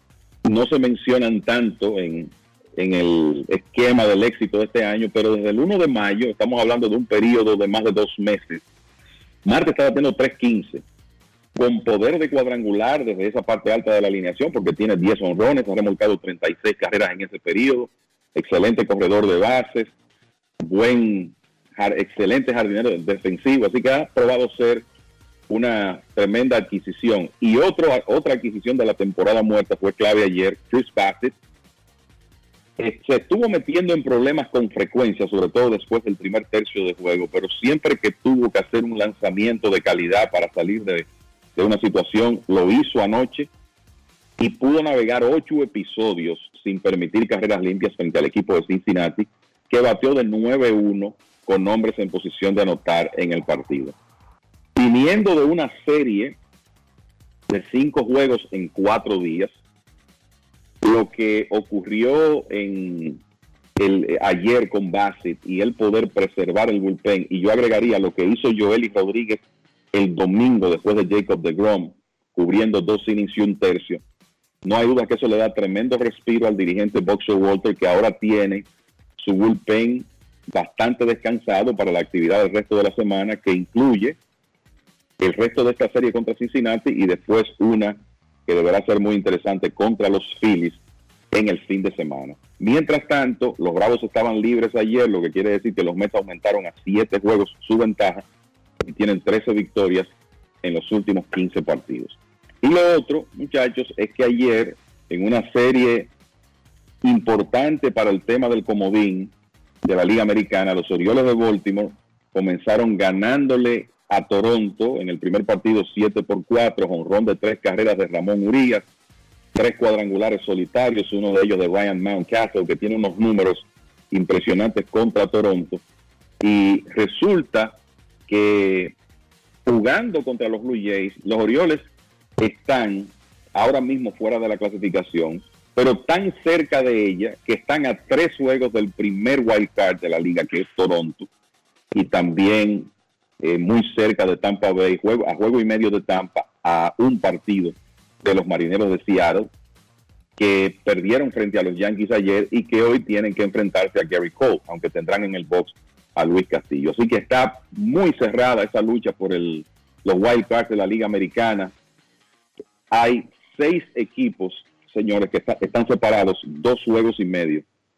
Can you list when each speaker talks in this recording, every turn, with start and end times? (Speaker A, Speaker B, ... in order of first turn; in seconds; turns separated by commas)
Speaker A: 0.5-8.6, Speaker A: 9.4-10.8, Speaker A: 11.6-19.9, Speaker A: 20.6-24.8, Speaker A: 25.5-31.3, Speaker A: 32.8-43.5, Speaker A: 44.4-53.9, Speaker A: 54.8-56.4, Speaker A: 57.5-59.5, Speaker A: 60.8-63.2, Speaker A: 63.8-69.4, Speaker A: 69.9-74.0, Speaker A: 74.6-78.7, Speaker A: 79.2-84.2, Speaker A: 85.2-90.8, Speaker A: 91.3-98.2, Speaker A: 98.8-100.1, Speaker A: 100.6-106.1, Speaker A: 107.0-109.3, Speaker A: 109.8-118.8, Speaker A: 119.5-125.8, Speaker A: 126.4-127.8, Speaker A: 128.3-128.9, Speaker A: 129.7-131.8, Speaker A: 132.4-141.3, Speaker A: 141.9-142.9, Speaker A: 143.4-149.5, Speaker A: 150.4-161.7, Speaker A: 162.9-167.6